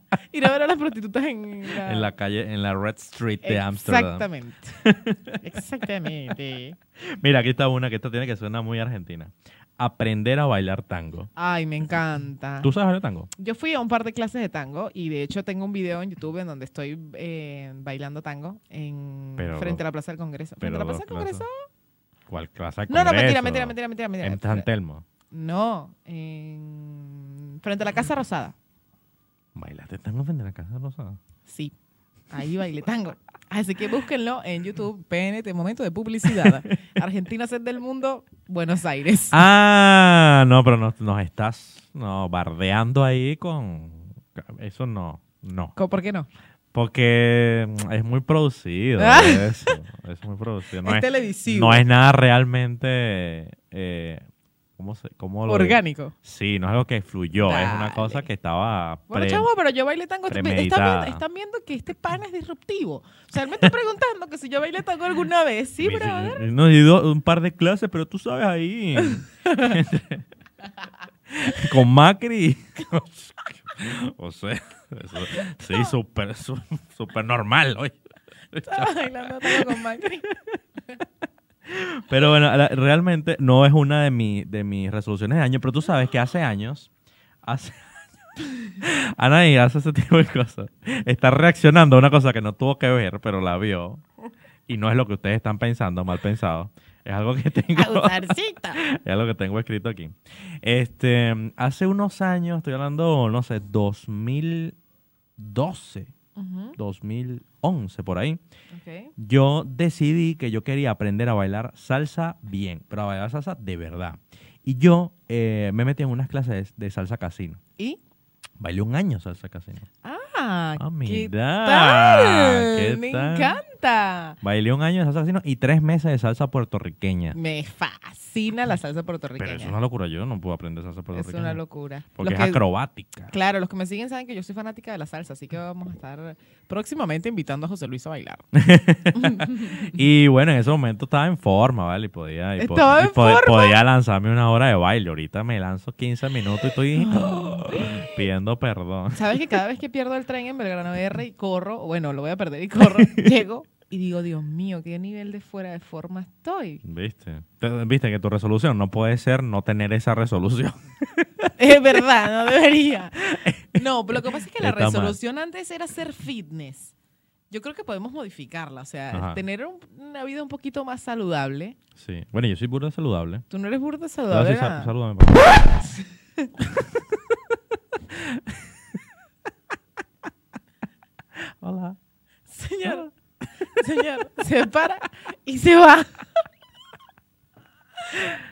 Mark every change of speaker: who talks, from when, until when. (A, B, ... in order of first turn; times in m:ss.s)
0:00.3-0:02.1 A
0:01.7-0:04.2 B
0:03.4-0:04.8 A
0:04.8-0:05.4 B
0:05.4-0:06.8 A
0:07.0-0:11.3 B
0:11.4-0:12.7 A
0:12.6-0:13.3 B
0:13.4-0:21.6 A
0:19.4-0:19.8 B
0:20.6-0:21.5 B
0:22.3-0:25.0 B
0:22.9-0:24.7 A
0:25.3-0:28.6 A
0:29.6-0:31.2 B
0:31.5-0:31.7 A
0:32.3-0:39.4 A
0:36.3-0:36.6 B
0:39.3-0:45.7 B
0:45.8-0:46.3 A
0:46.7-0:54.2 B
0:49.0-0:49.8 A
0:50.8-0:51.8 A
0:54.8-0:59.5 B
0:55.5-0:56.1 A
0:57.4-0:58.3 A
0:59.1-1:06.4 A
1:00.3-1:01.2 B
1:05.8-1:10.3 B
1:09.5-1:09.8 A
1:11.3-1:18.0 B
1:18.5-1:20.4 B
1:18.6-1:20.3 A
1:21.7-1:26.9 B
1:27.4-1:34.0 B
1:34.7-1:44.8 B
1:37.7-1:38.8 A
1:45.4-1:46.1 B
1:46.4-1:46.8 A
1:46.8-1:48.4 B
1:48.7-1:49.1 A
1:49.2-1:57.6 B
1:58.6-1:59.9 B
2:00.0-2:04.4 A
2:00.8-2:03.6 B
2:04.4-2:07.4 B
2:07.3-2:09.8 A
2:09.4-2:11.6 B
2:11.1-2:12.6 A
2:12.2-2:13.3 B
2:13.3-2:18.4 A
2:18.5-2:29.4 B
2:19.1-2:19.9 A
2:22.6-2:23.8 A
2:27.0-2:28.2 A
2:29.1-2:36.8 A
2:32.8-2:33.3 B
2:36.8-2:42.0 B
2:41.6-2:46.9 A
2:43.2-2:45.2 B
2:47.5-2:51.8 A
2:49.1-2:49.4 B
2:52.0-2:53.5 B
2:53.5-2:54.9 A
2:54.3-2:55.8 B
2:55.8-2:56.5 A
2:58.1-2:58.7 B
3:01.4-3:02.0 B
3:02.5-3:03.1 A
3:02.8-3:03.1 B
3:03.7-3:06.4 A